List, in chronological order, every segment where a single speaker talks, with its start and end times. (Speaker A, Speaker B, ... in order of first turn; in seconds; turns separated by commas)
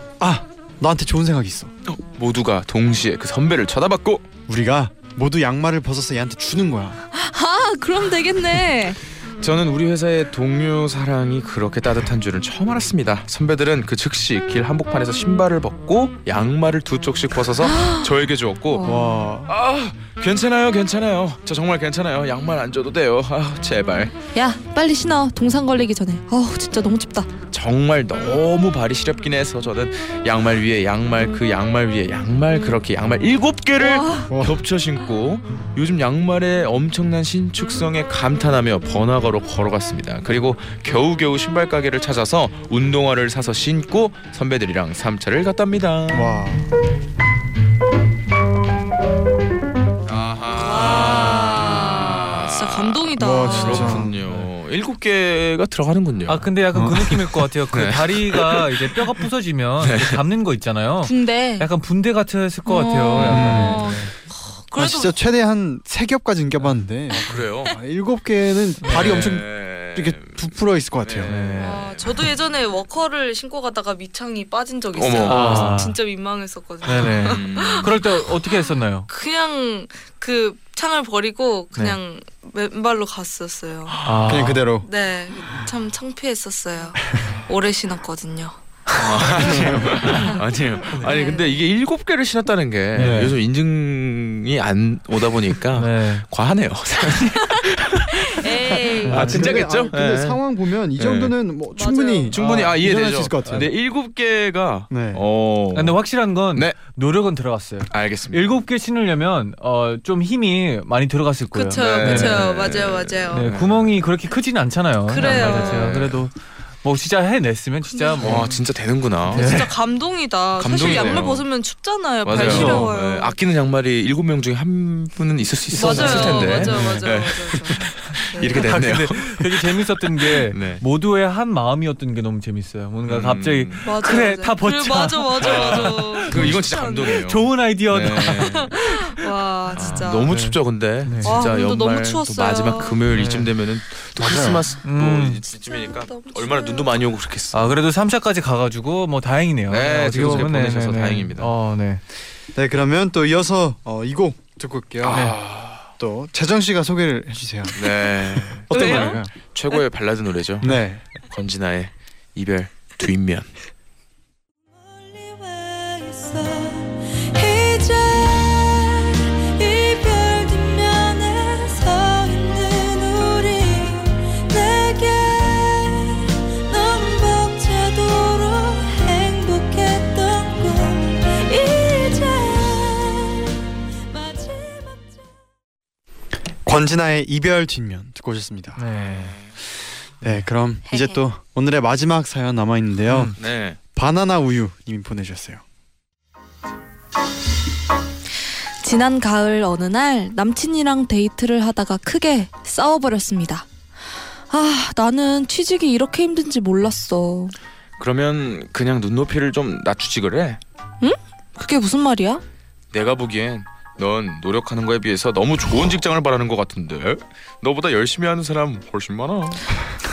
Speaker A: 0.2-1.7, Speaker B: 1.9-4.3, Speaker A: 4.5-7.0, Speaker C: 7.1-9.0, Speaker B: 9.4-18.9, Speaker C: 17.6-18.1, Speaker C: 18.7-19.2, Speaker A: 18.8-19.5, Speaker B: 19.5-24.1, Speaker C: 24.3-27.3, Speaker B: 27.5-46.4, Speaker C: 33.8-34.4, Speaker A: 34.3-34.6, Speaker A: 46.1-46.7, Speaker B: 50.1-59.2, Speaker C: 50.5-53.9, Speaker A: 53.2-54.1, Speaker D: 53.5-54.5, Speaker D: 56.3-64.1, Speaker B: 59.8-60.2, Speaker C: 61.0-61.7, Speaker C: 62.7-65.2, Speaker B: 63.2-63.5, Speaker A: 63.2-63.9, Speaker A: 64.8-71.4, Speaker B: 67.1-67.8, Speaker D: 68.8-69.3, Speaker B: 68.9-70.3, Speaker B: 71.0-72.3, Speaker D: 71.3-71.8, Speaker C: 71.6-84.0, Speaker B: 75.0-75.8, Speaker D: 75.3-76.0, Speaker D: 76.8-79.1, Speaker B: 77.0-78.0, Speaker B: 83.9-84.5, Speaker D: 84.0-84.7, Speaker A: 84.2-84.9, Speaker C: 84.8-88.6, Speaker B: 89.0-100.4, Speaker C: 89.4-90.4, Speaker A: 89.4-90.1, Speaker C: 91.0-91.6, Speaker D: 93.0-93.3, Speaker A: 93.0-93.3, Speaker D: 95.8-96.2, Speaker C: 97.1-99.4, Speaker D: 99.1-99.4, Speaker A: 99.1-103.7, Speaker B: 101.0-101.3, Speaker C: 101.7-102.3, Speaker B: 102.3-106.0, Speaker D: 102.4-102.7, Speaker A: 104.9-105.2, Speaker D: 105.7-112.5, Speaker B: 106.5-106.8, Speaker B: 107.9-108.6, Speaker C: 111.5-113.5, Speaker B: 111.7-113.9, Speaker D: 113.3-118.5, Speaker C: 115.1-116.0, Speaker B: 115.2-116.3, Speaker C: 117.9-118.5, Speaker B: 118.2-119.6, Speaker C: 119.3-123.3, Speaker D: 119.3-119.7, Speaker B: 120.6-121.5, Speaker D: 121.0-121.2, Speaker B: 122.2-130.8, Speaker A: 122.4-122.9, Speaker D: 122.4-122.9, Speaker D: 125.7-127.0, Speaker C: 125.7-128.6, Speaker D: 128.6-139.0, Speaker B: 133.1-134.3, Speaker C: 133.8-137.2, Speaker B: 135.4-138.7, Speaker C: 138.2-140.3, Speaker B: 139.7-147.8, Speaker D: 139.8-141.4, Speaker C: 141.2-143.0, Speaker D: 143.1-143.5, Speaker A: 144.2-144.6, Speaker D: 144.8-145.4, Speaker C: 146.0-147.0, Speaker D: 147.5-152.0, Speaker B: 149.7-151.5, Speaker A: 150.2-150.4, Speaker A: 152.6-155.4, Speaker B: 155.0-155.9, Speaker A: 156.0-159.3, Speaker B: 157.7-160.8, Speaker C: 158.7-159.2, Speaker A: 160.6-161.0, Speaker B: 161.3-163.5, Speaker E: 165.1-166.3, Speaker C: 167.4-168.2, Speaker E: 168.2-171.0, Speaker C: 170.7-171.7, Speaker E: 171.8-172.5, Speaker E: 173.1-173.5, Speaker E: 174.5-180.6, Speaker E: 181.8-182.2, Speaker A: 186.7-188.8, Speaker D: 188.8-189.4, Speaker B: 189.1-189.5, Speaker A: 190.2-193.3, Speaker C: 190.9-191.2, Speaker D: 193.1-193.3, Speaker B: 193.4-193.8, Speaker A: 193.9-195.6, Speaker C: 198.8-203.7, Speaker C: 204.5-207.6, Speaker B: 208.0-210.6, Speaker C: 211.0-212.4, Speaker B: 212.9-219.7